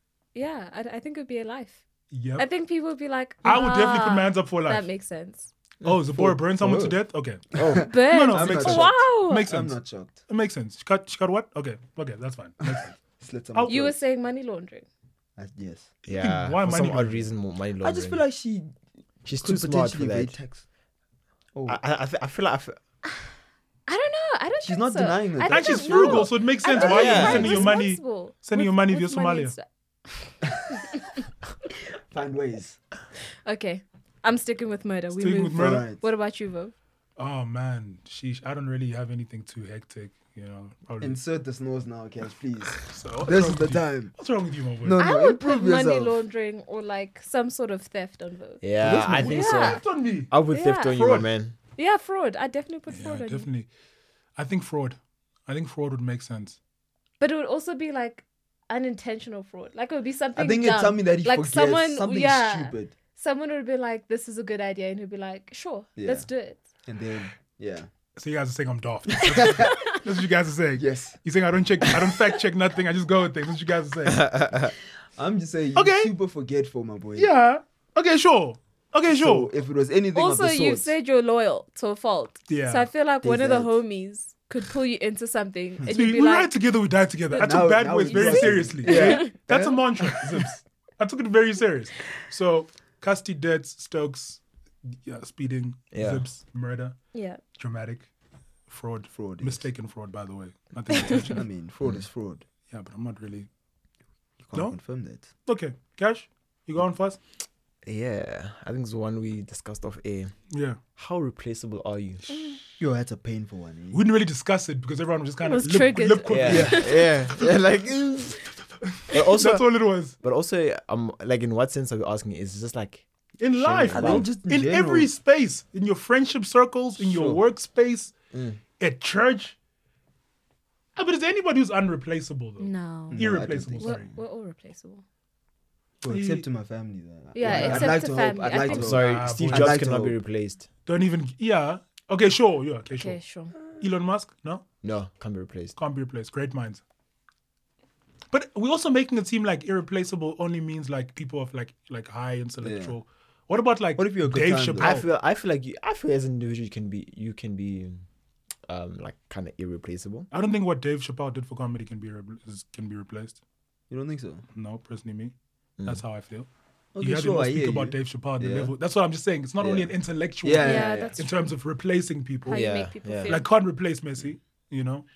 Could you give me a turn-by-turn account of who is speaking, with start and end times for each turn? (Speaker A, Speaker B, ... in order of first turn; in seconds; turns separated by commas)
Speaker A: 0.3-1.8, Speaker B: 2.1-2.5, Speaker A: 2.4-5.5, Speaker B: 3.4-4.9, Speaker B: 5.8-13.0, Speaker C: 6.1-7.0, Speaker C: 7.5-10.2, Speaker D: 7.5-7.9, Speaker A: 7.8-9.5, Speaker C: 12.7-14.0, Speaker A: 13.7-14.9, Speaker C: 15.4-15.9, Speaker D: 16.1-18.2, Speaker B: 16.1-17.3, Speaker C: 17.8-20.6, Speaker D: 19.2-20.4, Speaker C: 21.5-21.8, Speaker D: 21.7-22.8, Speaker A: 23.9-31.0, Speaker C: 24.6-27.7, Speaker B: 25.4-29.5, Speaker D: 26.8-27.6, Speaker C: 32.1-32.8, Speaker A: 33.5-36.7, Speaker B: 35.2-35.9, Speaker C: 35.5-36.0, Speaker B: 37.2-41.2, Speaker C: 41.0-44.1, Speaker B: 42.7-45.0, Speaker C: 44.8-46.2, Speaker A: 45.0-48.6, Speaker D: 48.6-51.5, Speaker B: 48.8-50.3, Speaker C: 48.8-49.3, Speaker A: 49.2-49.8, Speaker A: 50.5-51.2, Speaker B: 50.9-51.3, Speaker A: 51.8-53.5, Speaker B: 52.9-53.7, Speaker B: 54.4-56.6, Speaker A: 57.2-66.6, Speaker C: 60.4-62.9, Speaker C: 66.0-66.3, Speaker C: 66.8-67.9, Speaker B: 68.2-74.4, Speaker C: 69.3-69.9, Speaker C: 70.8-71.2, Speaker D: 74.1-74.7, Speaker C: 75.1-77.3, Speaker B: 75.8-76.1, Speaker B: 77.2-79.5, Speaker C: 79.1-80.9, Speaker A: 80.1-86.5, Speaker B: 82.5-82.9, Speaker C: 83.2-83.8, Speaker B: 85.9-97.0, Speaker A: 87.3-89.3, Speaker C: 87.3-90.5, Speaker D: 95.9-96.2, Speaker A: 97.1-97.4, Speaker B: 97.5-98.1, Speaker B: 98.7-101.4, Speaker C: 99.1-99.7, Speaker C: 101.0-102.4, Speaker B: 102.7-103.5, Speaker C: 104.4-105.3, Speaker B: 104.5-107.2, Speaker D: 107.8-110.4, Speaker B: 110.5-110.8, Speaker D: 111.0-112.2, Speaker A: 112.3-112.6, Speaker C: 112.8-114.0, Speaker B: 113.9-116.9, Speaker A: 115.4-117.1, Speaker D: 116.3-118.3, Speaker C: 116.5-118.3, Speaker B: 118.8-120.1, Speaker D: 119.1-119.7, Speaker D: 120.2-123.1, Speaker B: 123.4-128.1, Speaker D: 123.6-124.3, Speaker C: 123.9-125.1, Speaker C: 127.0-127.4, Speaker D: 128.3-128.6, Speaker B: 128.8-129.6, Speaker B: 130.9-134.1, Speaker A: 132.6-135.0, Speaker C: 133.1-134.2, Speaker C: 136.0-140.2, Speaker B: 136.1-136.4, Speaker A: 137.3-138.9, Speaker B: 137.4-138.1, Speaker D: 138.6-140.7, Speaker B: 138.8-139.8, Speaker B: 140.9-143.2, Speaker A: 142.9-143.5, Speaker B: 143.7-144.6, Speaker D: 144.8-145.8, Speaker B: 145.8-146.8, Speaker B: 148.3-155.1, Speaker C: 152.6-152.9, Speaker C: 154.0-154.9, Speaker D: 154.8-158.1, Speaker D: 158.7-160.3, Speaker B: 160.3-163.4, Speaker C: 163.9-164.4, Speaker B: 164.6-166.5, Speaker C: 166.9-168.7, Speaker B: 167.0-175.1, Speaker C: 169.6-169.9, Speaker C: 170.4-171.3, Speaker A: 170.6-171.4, Speaker A: 172.4-173.5, Speaker D: 172.5-173.4